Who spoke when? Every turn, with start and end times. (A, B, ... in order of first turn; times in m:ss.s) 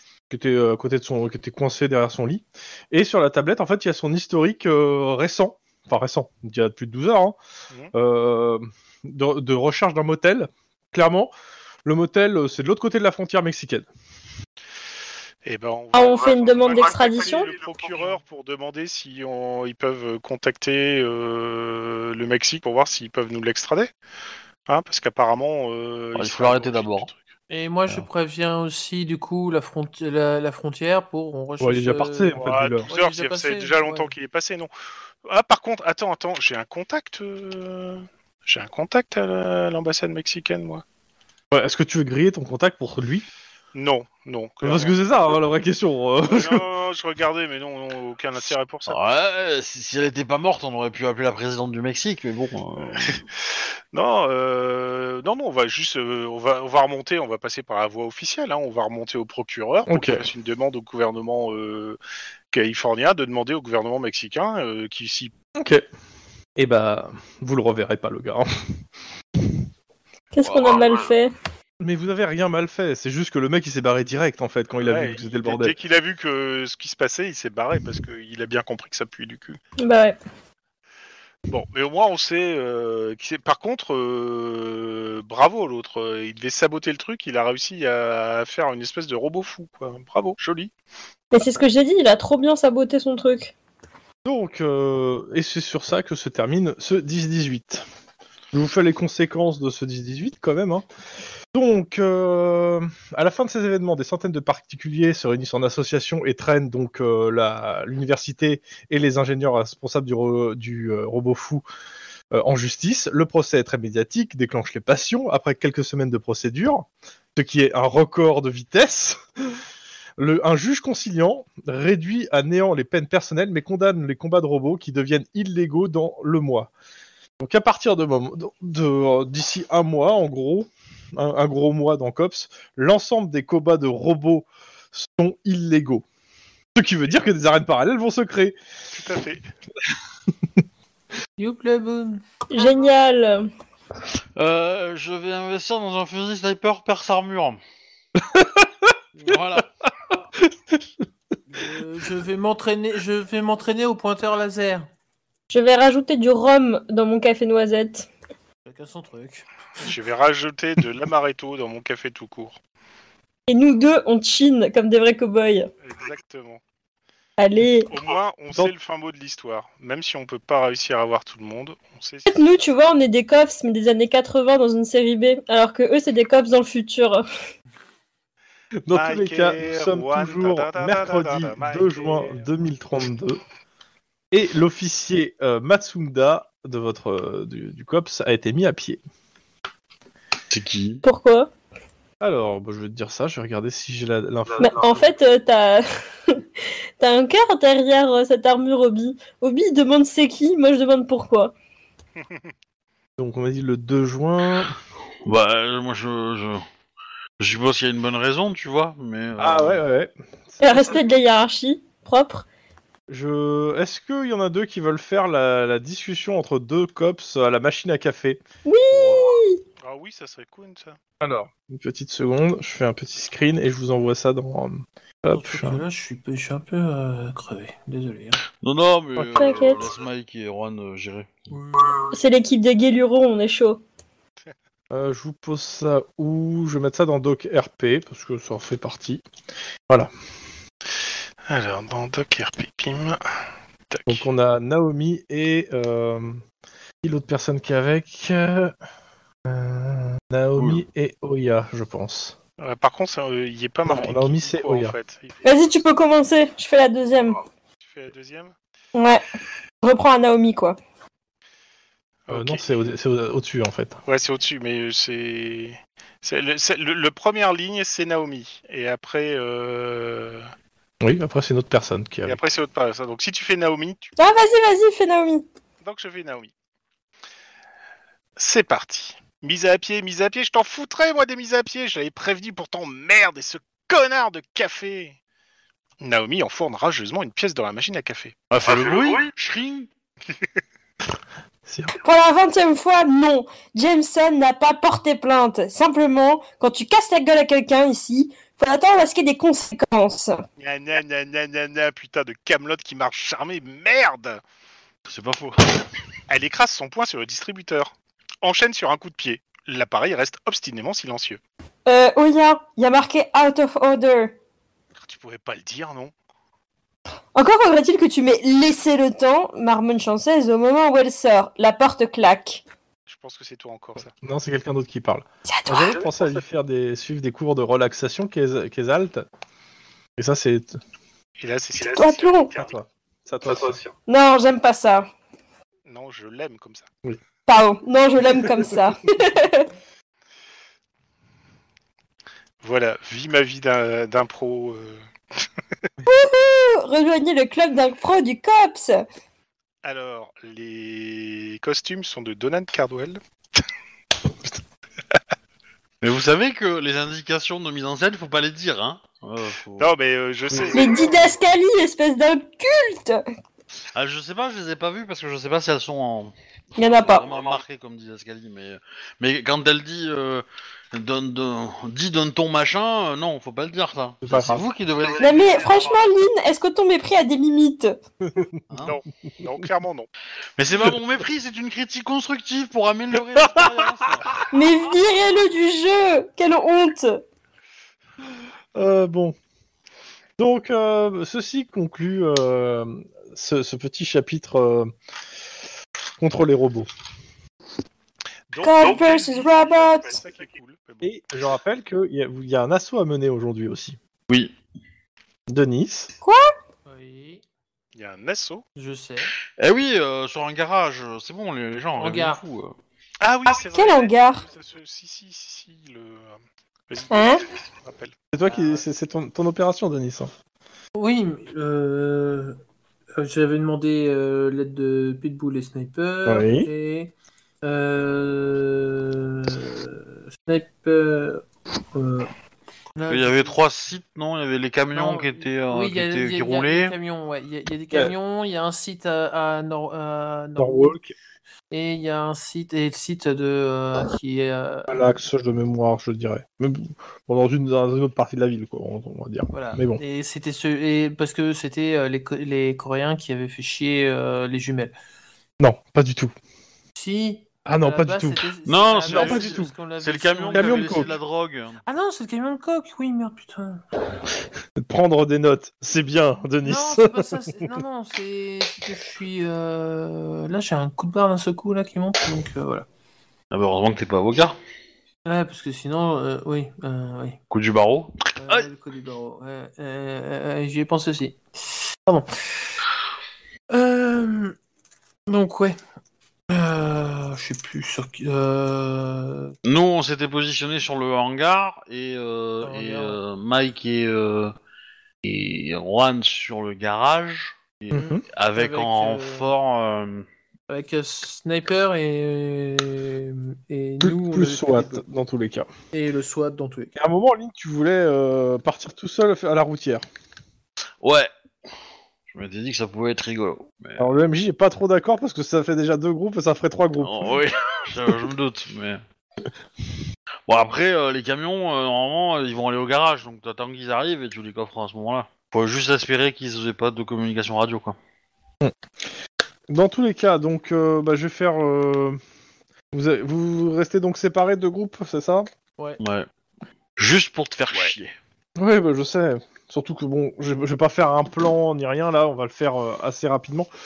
0:00.3-0:07.4 A
0:07.9-0:11.3 A
0:11.8-0:13.9 A
0:15.4-0:23.9 B
0:15.9-0:17.5 C
0:24.7-0:27.2 B
0:26.1-0:27.1 D
0:27.5-0:34.1 E
0:31.6-0:32.9 A
0:32.4-0:34.7 B
0:35.2-0:40.8 B
0:41.5-0:43.3 A
0:43.7-0:45.0 B
0:44.6-0:46.6 A
0:46.3-0:49.0 B
0:48.9-0:53.2 D
0:53.9-1:02.0 B
0:59.9-1:00.2 A
1:02.5-1:05.3 B
1:05.6-1:05.8 A
1:06.6-1:08.8 A
1:10.3-1:11.3 C
1:11.8-1:15.7 A
1:14.8-1:19.6 B
1:19.8-1:20.2 C
1:21.5-1:30.7 B
1:31.3-1:33.5 C
1:34.2-1:37.8 A
1:38.5-1:40.8 A
1:41.5-1:51.6 A
1:52.3-1:59.5 A
2:00.2-2:06.7 A
2:07.4-2:16.0 A
2:16.8-2:18.6 A
2:18.9-2:19.4 B
2:21.4-2:22.2 E
2:22.5-2:23.5 C
2:24.4-2:27.6 D
2:28.2-2:28.9 A
2:29.2-2:29.7 D
2:30.4-2:30.8 A
2:31.5-2:34.9 E
2:35.5-2:38.1 C
2:38.6-2:39.8 E
2:39.8-2:42.6 B
2:43.5-2:45.7 C
2:45.8-2:46.6 B
2:47.4-2:47.9 C
2:47.9-2:52.4 B
2:52.3-2:57.2 C
2:58.9-3:03.4 A
2:58.9-3:02.4 B
3:04.3-3:09.0 A
3:10.5-3:11.0 D
3:11.0-3:11.5 C
3:12.2-3:15.0 A
3:14.6-3:16.4 C
3:17.0-3:21.5 C
3:23.2-3:24.8 A
3:25.2-3:26.6 D
3:27.4-3:29.8 D
3:29.4-3:31.0 A
3:30.6-3:32.4 C
3:33.1-3:39.3 A
3:38.6-3:39.6 C
3:39.8-3:41.0 B
3:41.2-3:45.8 A
3:45.3-3:48.4 E
3:48.6-3:51.5 D
3:49.2-3:49.8 C
3:51.5-3:52.1 E
3:52.1-3:53.8 C
3:54.9-3:59.2 A
4:01.5-4:03.2 B
4:03.9-4:04.2 B
4:04.1-4:06.4 A
4:07.0-4:08.7 A
4:09.4-4:12.4 A
4:10.6-4:10.8 D
4:12.6-4:15.4 B
4:13.8-4:14.9 A
4:15.4-4:17.4 C
4:17.8-4:18.5 B
4:18.9-4:19.2 C
4:19.8-4:20.8 C
4:22.3-4:22.6 B
4:22.3-4:24.0 A
4:24.0-4:30.4 B
4:31.0-4:32.4 A
4:32.2-4:34.1 B
4:34.2-4:35.4 C
4:35.8-4:36.5 B
4:38.4-4:45.2 B
4:46.0-4:48.3 B
4:48.5-4:49.9 D
4:51.7-4:51.9 A
4:52.0-5:00.4 C
5:00.6-5:04.4 B
5:05.0-5:05.9 D
5:06.3-5:11.4 B
5:11.8-5:14.3 C
5:15.0-5:16.1 B
5:17.3-5:22.6 C
5:23.1-5:24.1 B
5:24.2-5:29.2 A
5:25.5-5:26.0 C
5:30.2-5:30.8 A
5:31.4-5:32.7 B
5:31.9-5:32.5 C
5:32.5-5:33.9 A
5:34.1-5:35.1 C
5:35.8-5:36.9 B
5:37.5-5:39.7 C
5:38.4-5:38.8 A
5:42.6-5:45.4 B
5:46.0-5:49.0 C
5:49.8-5:53.2 B
5:56.0-5:59.9 D
5:59.8-6:01.1 B
6:00.7-6:03.2 C
6:03.9-6:15.9 D
6:06.8-6:07.3 C
6:14.2-6:14.6 A
6:15.2-6:18.0 C
6:18.2-6:18.6 A
6:18.7-6:19.0 D
6:18.8-6:20.1 B
6:20.6-6:24.4 D
6:23.4-6:23.6 A
6:24.5-6:27.2 C
6:28.7-6:29.3 A
6:30.4-6:34.9 A
6:36.2-6:36.9 A
6:38.5-6:41.1 B
6:38.6-6:40.2 C
6:41.0-6:44.0 A
6:44.3-6:44.5 D
6:45.5-6:46.1 A
6:46.8-6:47.4 E
6:47.9-6:48.6 B
6:48.8-6:49.3 E
6:49.6-6:52.8 D
6:52.0-6:52.4 E
6:53.2-6:56.4 B
6:53.6-6:54.4 C
6:56.9-6:58.8 B
6:57.1-6:57.4 C
6:58.3-7:00.3 A
7:00.9-7:02.6 E
7:03.1-7:12.3 E
7:06.2-7:06.7 A
7:13.0-7:13.5 E
7:13.1-7:17.0 D
7:14.9-7:20.9 E
7:20.6-7:21.1 A
7:21.7-7:25.1 E
7:24.9-7:30.0 A
7:29.5-7:34.9 E
7:35.6-7:36.3 A
7:37.0-7:41.1 E
7:37.6-7:38.5 A
7:38.6-7:41.8 D
7:39.1-7:39.7 A
7:40.5-7:41.1 A
7:41.8-7:43.8 E
7:44.8-7:47.8 A
7:46.6-7:52.9 E
7:53.5-7:54.6 D
7:55.2-7:57.4 E
7:57.5-7:58.7 D
7:58.4-8:02.3 E
8:03.7-8:04.6 E
8:05.3-8:05.8 E
8:06.5-8:09.5 E
8:09.6-8:14.5 D
8:12.6-8:13.2 E
8:15.2-8:20.3 D
8:17.9-8:18.2 A
8:17.9-8:19.5 E
8:20.7-8:25.0 E
8:24.0-8:25.7 A
8:25.9-8:26.9 E
8:27.0-8:30.0 A
8:31.0-8:31.3 D
8:32.3-8:34.0 D
8:34.0-8:37.4 A
8:37.0-8:39.0 D
8:40.5-8:48.0 D
8:49.7-8:52.2 A
8:52.9-8:55.5 A
8:56.0-8:56.3 D
8:57.0-8:58.1 D
8:58.6-9:03.7 A